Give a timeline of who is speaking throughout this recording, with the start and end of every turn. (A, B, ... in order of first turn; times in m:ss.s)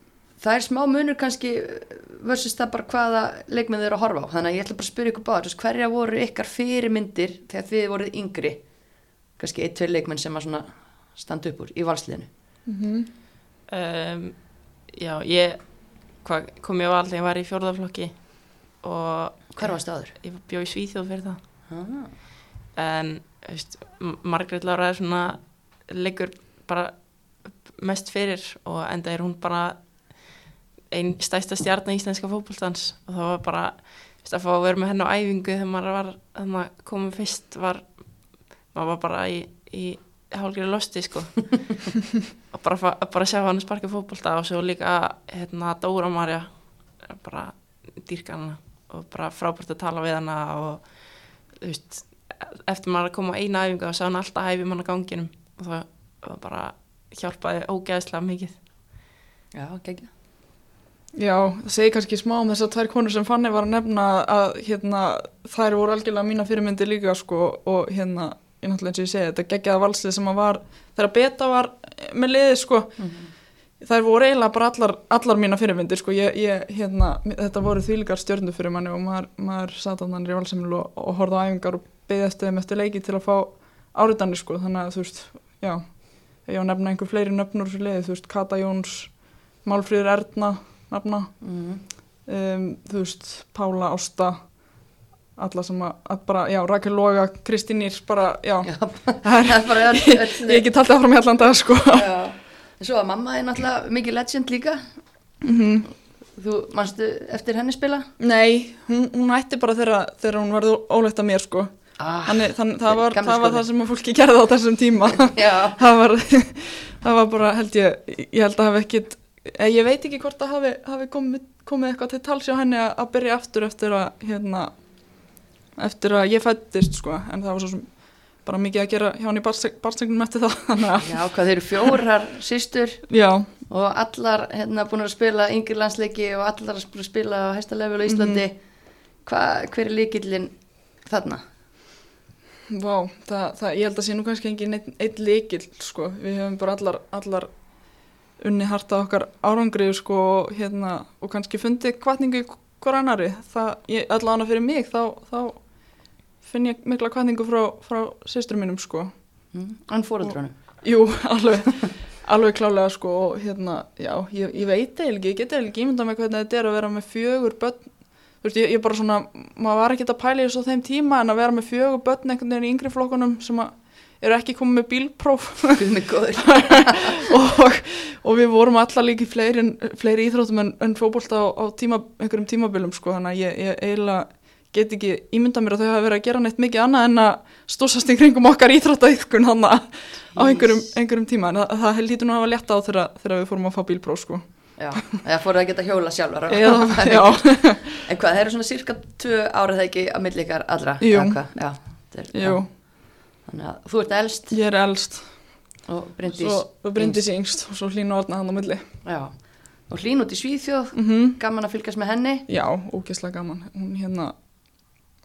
0:00.4-0:08.7 A
0:09.3-0:12.3 A
0:12.6-0:13.1 B
0:13.7-0:21.4 C
0:19.6-0:20.1 A
0:21.7-0:22.1 A
0:22.7-0:41.9 C
0:42.5-0:58.6 C
0:59.5-1:00.1 A
1:01.1-1:31.5 B
1:13.0-1:13.3 A
1:31.4-1:31.8 A
1:32.2-1:42.1 B
1:38.6-1:40.7 A
1:41.9-1:45.0 A
1:45.4-1:45.8 B
1:46.3-1:48.1 A
1:48.2-2:11.9 B
1:52.0-1:53.6 A
1:55.3-1:55.8 A
2:11.0-2:21.4 A
2:13.1-2:13.5 B
2:18.1-2:18.4 B
2:22.7-2:27.7 B
2:28.4-2:39.2 B
2:39.5-2:40.8 A
2:40.2-3:15.1 B
2:55.7-2:57.2 A
3:10.3-3:10.9 A
3:14.8-3:24.6 A
3:16.5-3:17.9 B
3:21.0-3:22.7 B
3:24.5-3:25.7 B
3:25.8-3:27.2 A
3:26.2-3:28.8 B
3:29.0-3:32.4 A
3:30.9-3:31.4 B
3:32.5-3:34.3 B